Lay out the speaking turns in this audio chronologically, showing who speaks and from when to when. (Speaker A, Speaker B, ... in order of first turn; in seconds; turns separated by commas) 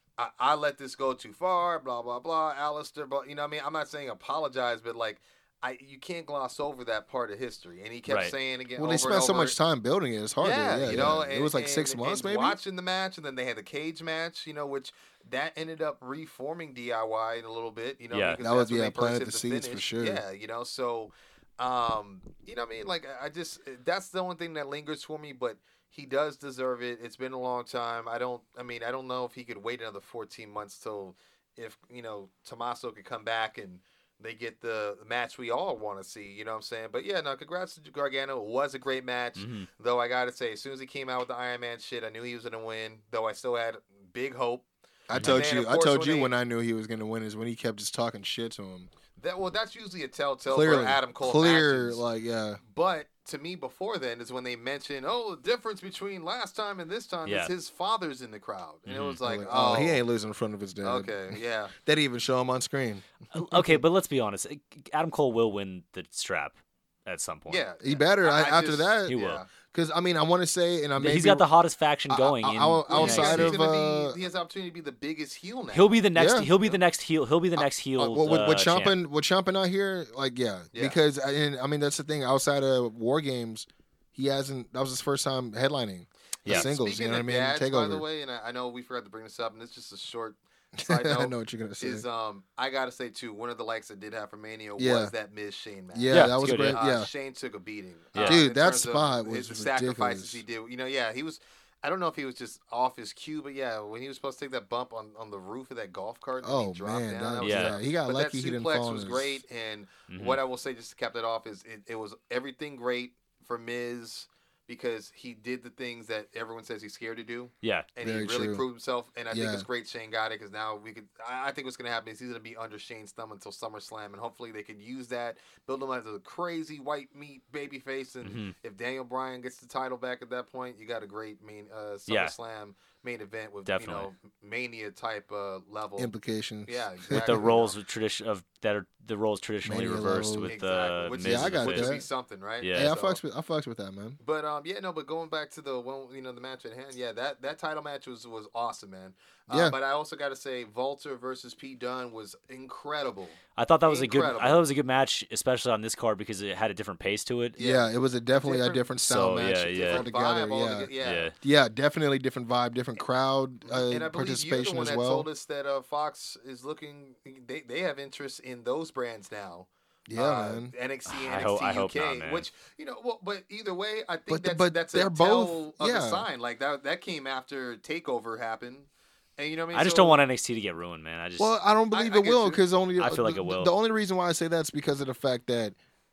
Speaker A: 0.2-9.6, Speaker B: 8.1-8.3, Speaker C: 8.8-12.6, Speaker A: 10.4-46.3, Speaker B: 18.1-18.4, Speaker C: 18.4-20.2, Speaker B: 39.4-39.7, Speaker C: 45.1-48.9, Speaker B: 45.1-45.4, Speaker A: 49.2-52.0, Speaker C: 50.5-52.6, Speaker A: 52.6-60.0, Speaker B: 57.2-57.5, Speaker B: 58.9-59.2, Speaker C: 59.2-63.8, Speaker A: 60.8-61.7, Speaker B: 63.3-67.6, Speaker A: 67.5-69.5, Speaker C: 67.8-71.5, Speaker B: 69.1-69.4, Speaker B: 71.0-73.6, Speaker C: 72.1-74.2, Speaker A: 72.9-76.1, Speaker B: 75.7-79.0, Speaker C: 76.2-76.5, Speaker C: 77.6-88.0, Speaker A: 80.7-81.0, Speaker A: 86.4-136.1, Speaker B: 86.5-86.7, Speaker C: 90.8-92.0, Speaker C: 94.8-95.1, Speaker C: 95.9-97.1, Speaker B: 96.1-96.8, Speaker B: 98.1-98.4, Speaker C: 98.2-100.4, Speaker C: 106.4-109.4, Speaker B: 107.4-107.8, Speaker B: 110.1-110.4, Speaker B: 117.6-117.9, Speaker C: 118.0-118.6, Speaker C: 119.3-119.7, Speaker B: 128.2-128.6, Speaker B: 132.1-132.3, Speaker B: 133.7-134.1, Speaker C: 136.0-137.6, Speaker A: 136.7-137.8, Speaker B: 137.1-141.9, Speaker C: 139.6-140.5, Speaker A: 140.4-143.2, Speaker C: 141.2-142.1, Speaker B: 142.6-142.9, Speaker C: 142.8-144.2, Speaker A: 144.2-154.6, Speaker C: 149.5-149.8, Speaker B: 153.6-157.6, Speaker A: 157.6-161.3, Speaker C: 157.6-165.3, Speaker B: 159.0-160.0, Speaker B: 161.0-161.3, Speaker A: 163.7-180.2, Speaker C: 170.1-170.7, Speaker B: 171.1-172.5, Speaker C: 174.3-176.3, Speaker B: 179.7-181.5, Speaker C: 181.4-185.8, Speaker A: 181.9-182.6, Speaker B: 183.0-183.7